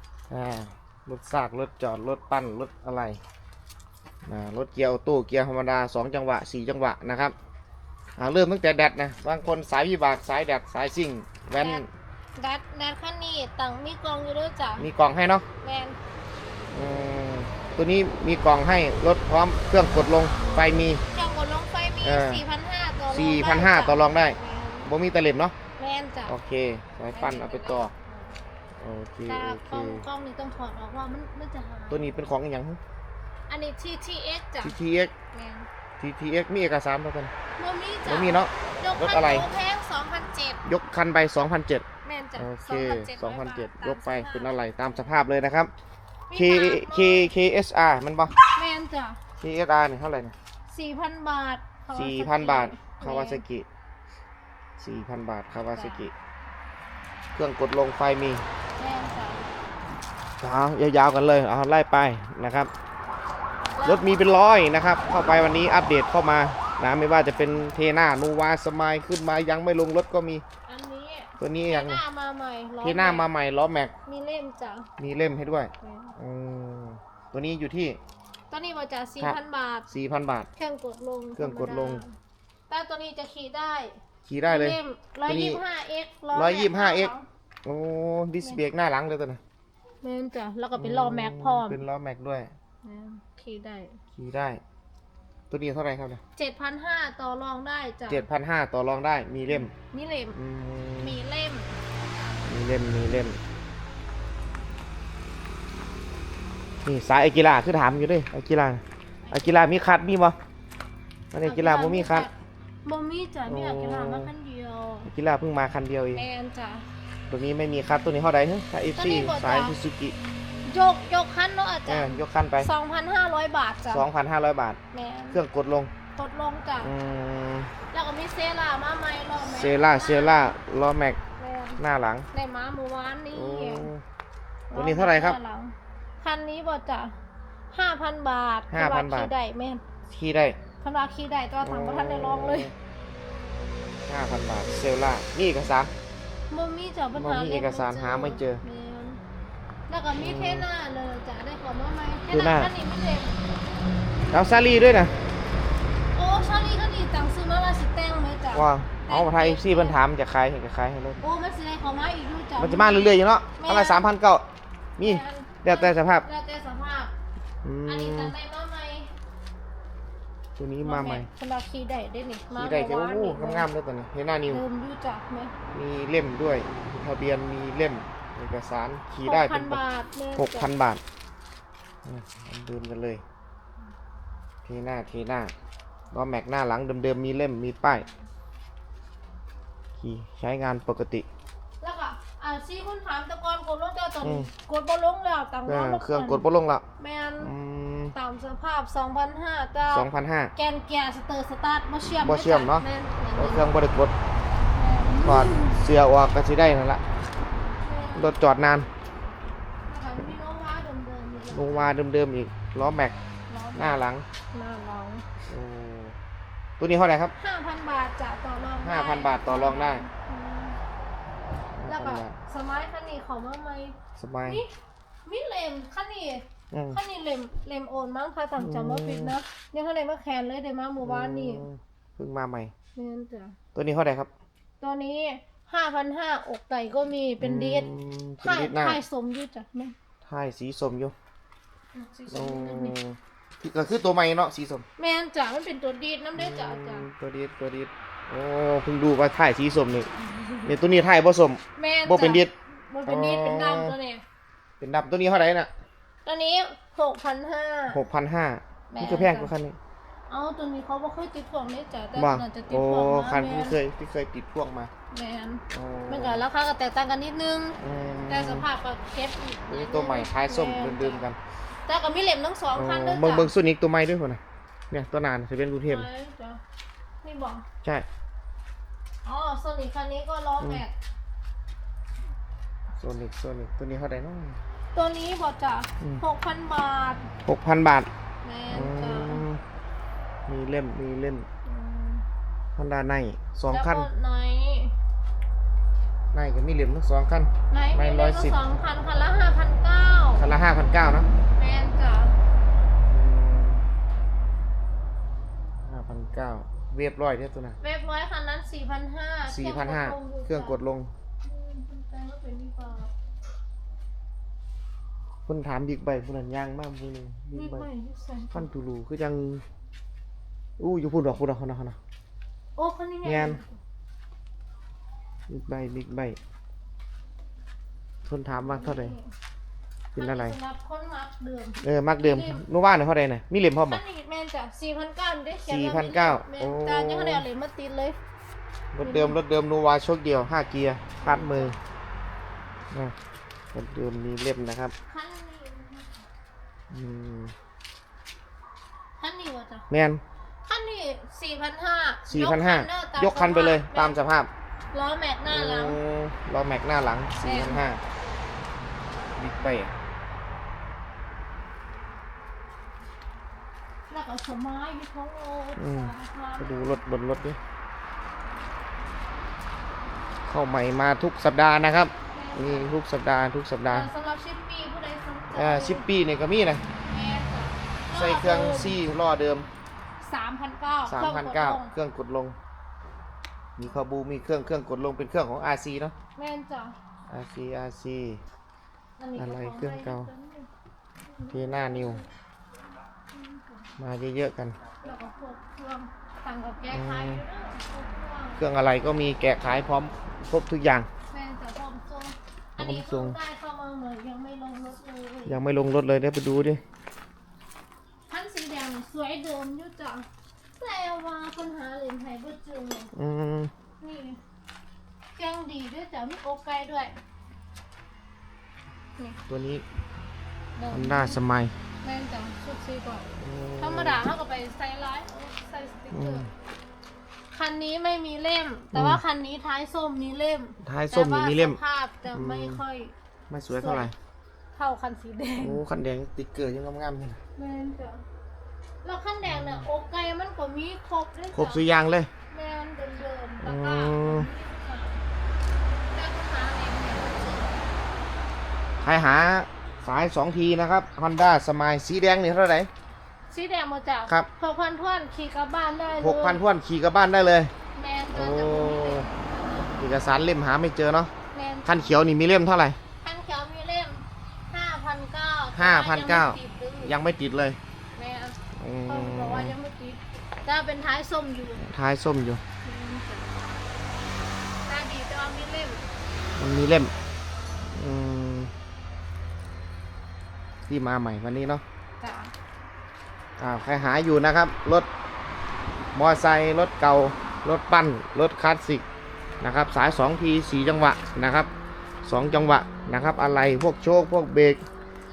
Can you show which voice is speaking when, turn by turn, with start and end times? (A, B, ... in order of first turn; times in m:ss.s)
0:00.3-0:03.2 A
0:04.2-0:07.3 A
0:08.2-0:11.9 A
0:11.6-0:11.8 B
0:12.4-0:14.9 B
0:14.8-0:15.4 A
0:15.6-0:16.0 B
0:16.7-0:21.0 A
0:21.1-0:24.9 B
0:22.0-0:22.4 A
0:23.1-0:25.5 A
0:25.8-0:26.3 B
0:26.2-0:27.9 A
0:27.1-0:28.3 B
0:28.8-0:30.0 A
0:29.3-0:32.2 B
0:31.9-0:32.8 A
0:33.5-0:34.7 B
0:34.6-0:35.1 A
0:35.3-0:35.7 B
0:36.0-0:37.3 A
0:37.6-0:40.6 B
0:38.0-0:39.4 A
0:40.6-0:45.7 A
0:42.0-0:45.1 B
0:46.3-0:47.3 B
0:46.3-0:48.4 A
0:48.5-0:49.2 B
0:49.4-0:50.3 A
0:50.7-0:53.4 B
0:51.9-0:53.6 A
0:54.8-0:56.1 A
0:55.7-0:56.0 B
0:57.3-0:58.4 A
0:58.8-0:59.5 B
1:00.4-1:02.7 A
1:03.8-1:04.4 B
1:03.8-1:10.4 A
1:07.2-1:07.6 B
1:10.7-1:13.3 B
1:11.4-1:12.0 A
1:12.8-1:13.9 A
1:14.0-1:14.9 B
1:15.0-1:18.0 A
1:15.8-1:16.1 B
1:18.5-1:19.9 B
1:19.9-1:20.5 A
1:20.6-1:22.1 B
1:21.4-1:22.0 A
1:22.7-1:27.2 B
1:24.3-1:25.6 A
1:26.3-1:27.1 A
1:27.6-1:29.4 A
1:30.0-1:31.8 B
1:30.7-1:32.5 A
1:32.8-1:34.0 B
1:34.2-1:34.6 A
1:35.5-1:36.2 A
1:36.4-1:38.2 B
1:38.1-1:39.7 A
1:39.5-1:40.4 B
1:40.3-1:41.1 A
1:41.0-1:41.8 B
1:42.4-1:43.4 A
1:46.8-1:50.4 A
1:49.3-1:49.5 B
1:51.3-1:52.3 A
1:51.4-1:55.1 B
1:53.4-1:54.3 A
1:55.0-1:56.2 A
1:56.1-1:56.8 B
1:57.3-2:00.2 A
1:59.0-1:59.8 B
2:00.6-2:04.0 B
2:01.8-2:02.7 A
2:03.9-2:04.8 A
2:04.9-2:05.4 B
2:05.3-2:05.9 A
2:06.2-2:06.9 B
2:06.8-2:07.7 A
2:07.9-2:10.5 B
2:09.4-2:11.2 A
2:11.4-2:11.8 B
2:11.8-2:12.3 A
2:12.3-2:13.9 B
2:13.3-2:14.0 A
2:14.7-2:17.2 B
2:14.7-2:15.4 A
2:17.7-2:19.8 B
2:18.7-2:19.3 A
2:20.1-2:20.6 A
2:20.8-2:22.7 B
2:21.6-2:22.7 A
2:24.1-2:25.9 A
2:26.5-2:29.2 B
2:27.1-2:28.6 A
2:29.9-2:33.4 B
2:30.2-2:30.6 A
2:32.3-2:32.7 A
2:34.3-2:35.1 A
2:36.1-2:40.0 B
2:38.5-2:41.2 A
2:41.2-2:44.0 B
2:42.6-2:44.4 A
2:45.0-2:46.2 A
2:45.0-2:47.1 B
2:47.6-2:48.3 A
2:47.9-2:49.1 B
2:50.6-2:51.3 A
2:50.8-2:53.7 B
2:52.5-2:54.6 A
2:54.5-2:55.5 B
2:55.7-2:59.8 A
2:59.2-3:00.7 B
3:00.4-3:01.0 A
3:02.0-3:03.2 A
3:04.6-3:05.5 A
3:06.1-3:08.0 A
3:10.0-3:11.2 A
3:11.8-3:16.4 B
3:14.2-3:14.5 A
3:15.6-3:16.8 A
3:17.0-3:17.5 B
3:17.4-3:18.2 A
3:18.1-3:23.7 B
3:19.9-3:20.5 A
3:22.2-3:22.8 A
3:23.4-3:24.1 A
3:24.7-3:25.8 B
3:25.2-3:27.0 A
3:27.8-3:28.3 B
3:28.1-3:28.9 A
3:29.9-3:31.9 B
3:31.5-3:33.2 A
3:33.5-3:35.2 B
3:33.7-3:34.2 A
3:35.5-3:36.2 A
3:36.8-3:37.3 A
3:37.4-3:40.8 B
3:38.8-3:40.0 A
3:41.8-3:42.4 A
3:41.8-3:44.7 B
3:44.2-3:44.6 A
3:45.2-3:51.6 B
3:46.7-3:47.0 A
3:48.6-3:49.3 A
3:51.0-3:52.7 A
3:52.9-3:53.5 B
3:53.7-3:54.3 A
3:54.8-3:57.9 B
3:57.4-3:59.0 A
3:58.4-3:59.9 B
4:00.2-4:01.1 A
4:01.9-4:03.0 B
4:02.3-4:04.8 A
4:05.0-4:07.1 B
4:06.3-4:10.1 A
4:10.2-4:10.7 B
4:10.6-4:12.5 A
4:11.8-4:14.2 B
4:13.0-4:13.9 A
4:14.8-4:15.7 A
4:16.2-4:18.0 B
4:17.9-4:19.8 A
4:18.9-4:19.5 B
4:20.3-4:23.8 B
4:22.1-4:24.9 A
4:25.1-4:31.3 B
4:25.7-4:26.4 A
4:27.8-4:28.7 A
4:29.7-4:31.4 A
4:31.9-4:33.5 B
4:32.7-4:34.4 A
4:34.9-4:36.1 A
4:35.8-4:36.6 B
4:37.2-4:37.6 B
4:39.2-4:40.9 B
4:43.0-4:44.6 A
4:44.9-4:47.3 B
4:47.4-4:48.1 A
4:48.4-4:49.4 B
4:48.7-4:49.6 A
4:50.5-4:51.5 A
4:51.6-4:52.2 B
4:52.8-4:54.1 A
4:53.7-4:54.9 B
4:56.3-4:58.6 A
4:57.7-5:00.4 B
5:00.4-5:01.3 A
5:01.5-5:02.4 B
5:03.1-5:03.8 A
5:05.8-5:07.8 A
5:07.8-5:10.8 B
5:09.4-5:11.1 A
5:11.4-5:13.1 B
5:15.5-5:17.9 A
5:17.5-5:18.7 B
5:18.5-5:19.6 A
5:20.8-5:22.0 A
5:22.8-5:23.8 B
5:23.2-5:23.6 A
5:25.5-5:26.4 A
5:28.2-5:29.1 A
5:28.5-5:29.3 B
5:30.1-5:32.6 B
5:30.1-5:30.6 A
5:31.8-5:34.0 A
5:33.9-5:38.2 B
5:35.6-5:37.4 A
5:38.9-5:41.8 A
5:39.0-5:39.4 B
5:41.2-5:41.8 B
5:43.7-5:44.9 A
5:45.1-5:46.2 B
5:46.9-5:47.5 A
5:49.2-5:49.9 B
5:49.9-5:50.2 A
5:50.7-5:54.2 B
5:52.3-5:54.5 A
5:54.9-5:56.0 B
5:55.5-5:58.0 A
5:57.4-5:57.8 B
5:59.4-5:59.9 A
6:04.1-6:07.0 B
6:05.8-6:07.6 A
6:10.4-6:14.1 A
6:12.3-6:13.0 B
6:13.9-6:16.1 B
6:15.5-6:16.8 A
6:17.1-6:19.0 B
6:18.1-6:19.7 A
6:20.2-6:21.9 B
6:21.0-6:22.6 A
6:23.8-6:26.1 A
6:26.4-6:27.0 B
6:27.3-6:28.4 A
6:29.2-6:30.7 B
6:29.4-6:30.3 A
6:31.3-6:32.2 B
6:31.5-6:32.2 A
6:33.3-6:33.9 B
6:34.0-6:34.8 A
6:35.0-6:38.6 B
6:36.9-6:37.4 A
6:38.6-6:41.1 A
6:41.3-6:45.6 B
6:42.8-6:43.4 A
6:45.4-6:46.8 A
6:48.3-6:50.3 B
6:50.8-6:53.1 B
6:53.1-6:53.7 A
6:54.0-6:54.4 B
6:55.3-6:57.2 B
6:59.5-6:59.8 A
7:00.8-7:01.4 B
7:00.9-7:01.7 A
7:02.0-7:06.4 B
7:03.4-7:04.2 A
7:06.1-7:06.5 A
7:07.5-7:13.1 B
7:08.9-7:09.2 A
7:10.8-7:11.8 A
7:12.3-7:12.8 A
7:13.5-7:14.1 A
7:13.7-7:14.1 B
7:14.7-7:15.8 B
7:15.6-7:17.4 A
7:17.6-7:18.2 B
7:19.0-7:21.9 B
7:19.4-7:19.8 A
7:21.5-7:22.3 A
7:22.5-7:25.2 B
7:23.6-7:24.5 A
7:25.9-7:27.9 B
7:29.0-7:32.9 A
7:33.5-7:36.6 B
7:36.1-7:37.7 A
7:37.9-7:40.0 B
7:38.3-7:39.3 A
7:40.0-7:41.3 A
7:41.5-7:42.2 B
7:41.8-7:43.0 A
7:43.2-7:47.1 B
7:45.7-7:47.8 A
7:48.2-7:51.8 B
7:48.8-7:49.8 A
7:51.8-7:52.6 A
7:52.8-7:53.6 B
7:54.8-7:56.0 B
7:56.6-7:57.1 A
7:57.9-7:58.7 A
8:00.9-8:01.8 A
8:02.2-8:02.5 B
8:03.6-8:05.1 A
8:06.1-8:09.0 A
8:09.6-8:11.7 A
8:12.2-8:14.8 A